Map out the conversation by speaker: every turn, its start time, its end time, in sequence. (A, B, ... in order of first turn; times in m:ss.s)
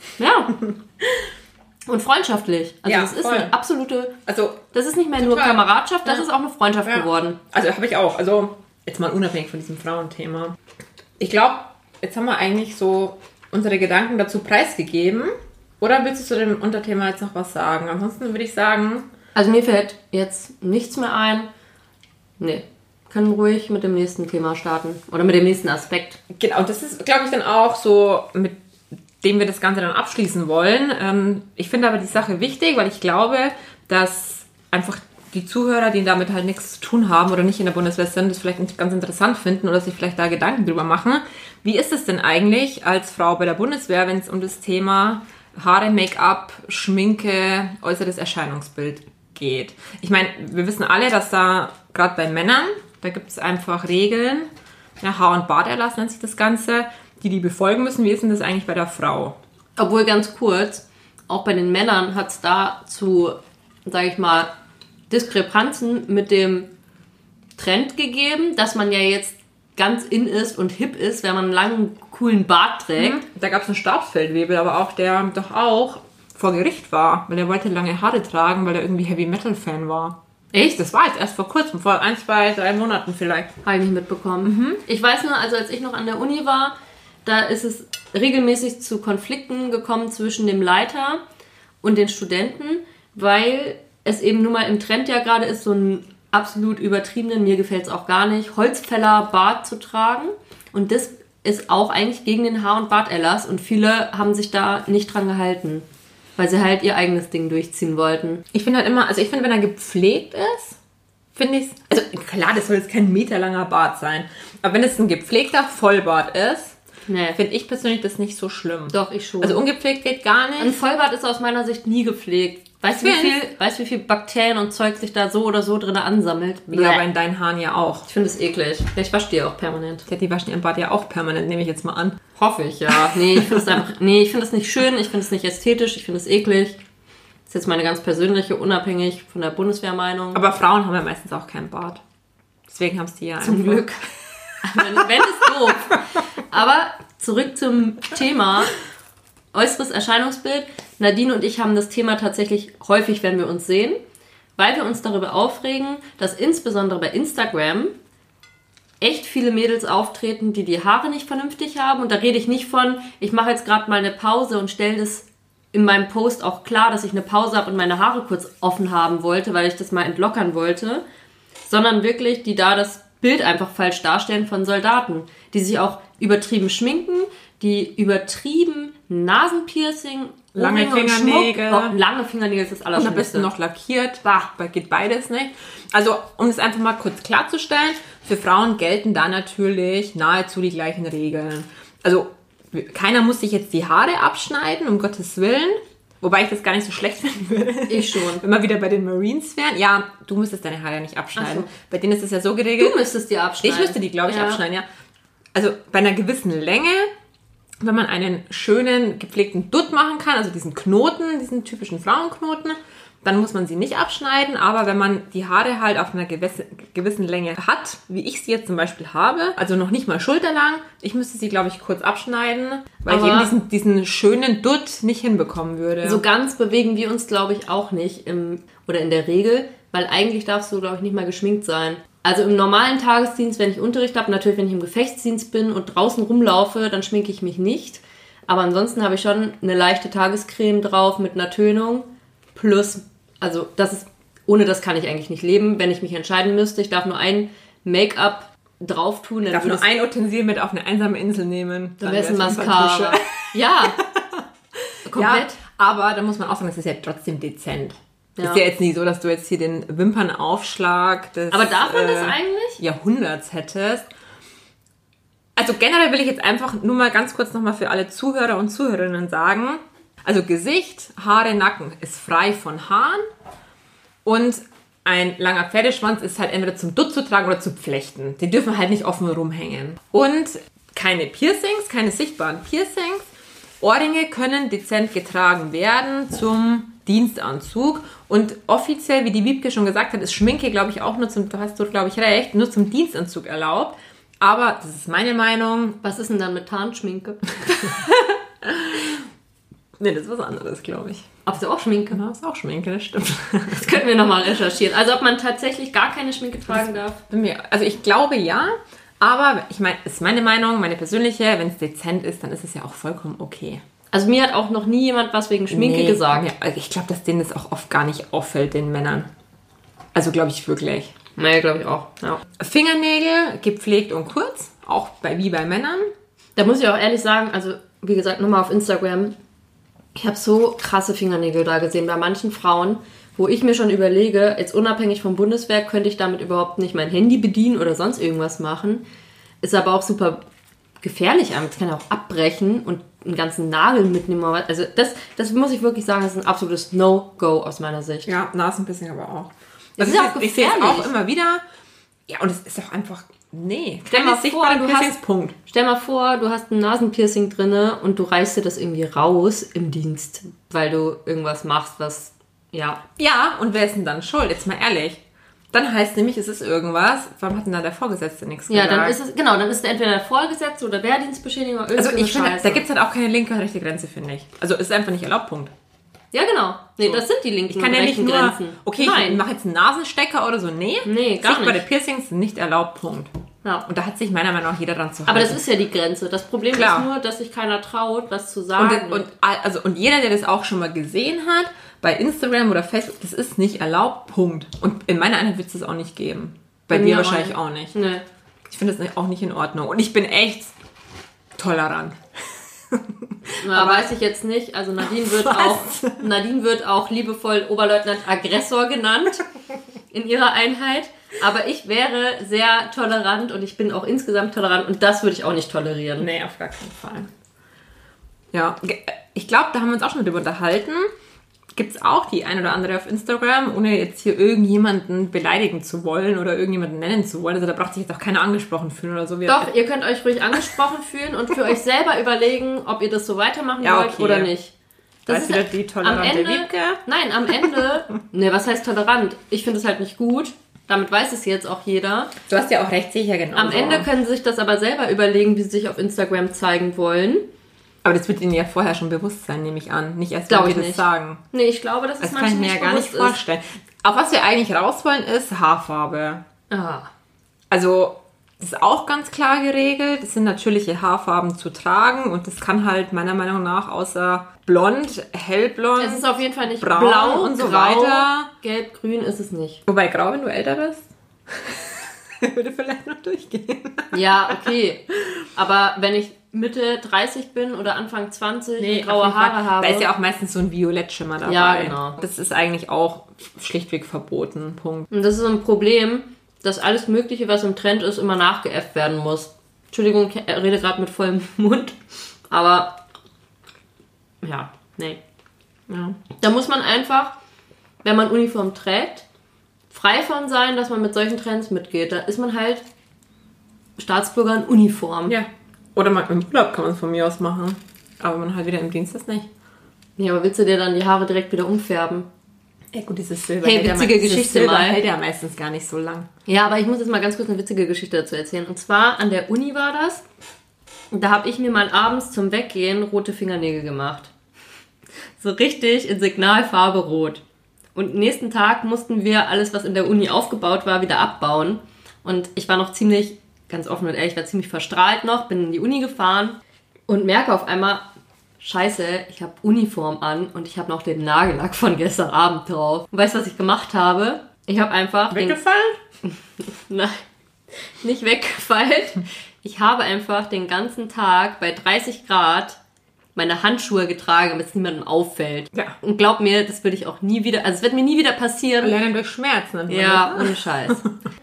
0:00.2-0:00.5 A
0:00.5-0:01.3 B
0:01.9-0:04.1 A
0:02.8-0:03.5 B
0:04.3-0:04.6 B
0:04.7-0:07.4 A
0:05.2-0:06.2 B
0:06.8-0:10.6 B
0:11.2-0:19.1 B
0:19.3-0:21.5 A
0:22.4-0:26.2 A
0:26.3-0:28.6 B
0:29.2-0:54.5 B
0:55.0-0:59.4 B
0:59.8-1:04.5 A
1:05.1-1:06.7 A
1:07.6-1:13.2 A
1:13.0-1:23.5 B
1:23.6-1:26.7 A
1:24.4-1:24.8 B
1:27.2-1:31.2 A
1:31.8-1:45.8 A
1:46.4-1:48.4 A
1:48.5-1:50.8 B
1:51.3-1:56.8 B
1:57.1-1:57.4 A
1:57.3-2:00.8 B
1:58.9-1:59.6 A
2:00.6-2:07.0 A
2:02.9-2:03.4 B
2:06.7-2:08.1 B
2:08.1-2:10.0 A
2:10.0-2:12.2 B
2:12.4-2:16.8 A
2:12.9-2:13.8 B
2:17.5-2:20.4 A
2:20.3-2:22.0 B
2:22.7-2:25.1 B
2:23.4-2:24.0 A
2:24.6-2:28.8 A
2:29.5-2:34.0 A
2:34.6-2:37.9 A
2:39.0-2:51.0 A
2:51.6-3:03.5 A
3:00.6-3:01.9 B
3:03.0-3:23.1 B
3:17.9-3:18.4 A
3:21.4-3:21.7 A
3:22.8-3:24.6 A
3:23.6-3:24.8 B
3:25.5-3:27.1 B
3:27.8-3:46.2 B
3:43.1-3:43.5 A
3:46.0-4:09.8 A
4:09.5-4:24.1 B
4:12.0-4:14.0 A
4:15.1-4:15.6 A
4:18.4-4:18.6 A
4:21.5-4:22.8 A
4:25.6-4:33.2 B
4:34.2-4:43.3 B
4:43.8-4:56.0 B
4:56.0-4:58.2 A
4:58.6-4:59.3 B
5:00.0-5:01.3 B
5:01.4-5:02.2 A
5:02.1-5:04.0 B
5:03.7-5:07.2 A
5:07.3-5:13.8 B
5:14.1-5:16.5 A
5:15.7-5:19.3 B
5:20.1-5:21.1 B
5:21.4-5:22.4 A
5:22.6-5:26.1 B
5:26.6-5:29.3 A
5:30.2-5:39.0 A
5:39.6-5:40.4 A
5:41.0-5:48.3 A
5:48.2-5:51.6 B
5:50.0-5:51.1 A
5:52.3-5:55.6 B
5:54.1-6:03.0 A
6:03.2-6:05.2 B
6:05.7-6:09.2 B
6:08.7-6:12.8 A
6:12.0-6:15.7 B
6:16.3-6:19.4 A
6:17.0-6:23.3 B
6:21.0-6:21.8 A
6:23.8-6:25.6 B
6:25.2-6:29.2 A
6:26.7-6:27.1 B
6:28.8-6:37.9 B
6:36.9-6:38.2 A
6:38.7-6:40.7 B
6:41.5-6:44.1 B
6:43.6-6:49.4 A
6:45.0-6:46.2 B
6:50.1-6:56.3 A
6:56.2-6:57.3 B
6:58.5-7:01.1 B
7:01.7-7:09.7 B
7:09.5-7:14.7 A
7:13.8-7:14.5 B
7:15.3-7:17.8 B
7:15.3-7:22.3 A
7:22.4-7:24.1 B
7:23.5-7:27.4 A
7:28.0-7:31.4 B
7:30.5-7:33.4 A
7:32.2-7:36.4 B
7:36.7-7:37.1 A
7:37.7-7:46.2 B
7:46.0-7:49.8 A
7:46.8-7:48.5 B
7:49.9-7:54.7 B
7:54.1-7:55.0 A
7:55.5-8:00.1 A
7:58.8-8:05.1 B
8:01.4-8:02.2 A
8:05.1-8:12.0 A
8:12.5-8:13.0 A
8:14.4-8:15.2 A
8:15.9-8:16.2 B
8:16.4-8:17.3 A
8:18.0-8:19.2 A
8:19.9-8:22.8 A
8:24.0-8:25.3 A
8:25.3-8:29.5 B
8:30.2-8:32.3 A
8:32.9-8:36.3 B
8:33.6-8:35.0 A
8:36.5-8:40.2 A
8:41.1-8:44.3 A
8:45.4-8:47.4 A
8:47.9-8:58.0 A
8:58.6-9:05.6 A
9:05.3-9:06.0 B
9:06.2-9:07.2 A
9:08.0-9:12.8 A
9:13.4-9:19.0 A
9:18.8-9:21.1 B
9:19.9-9:21.0 A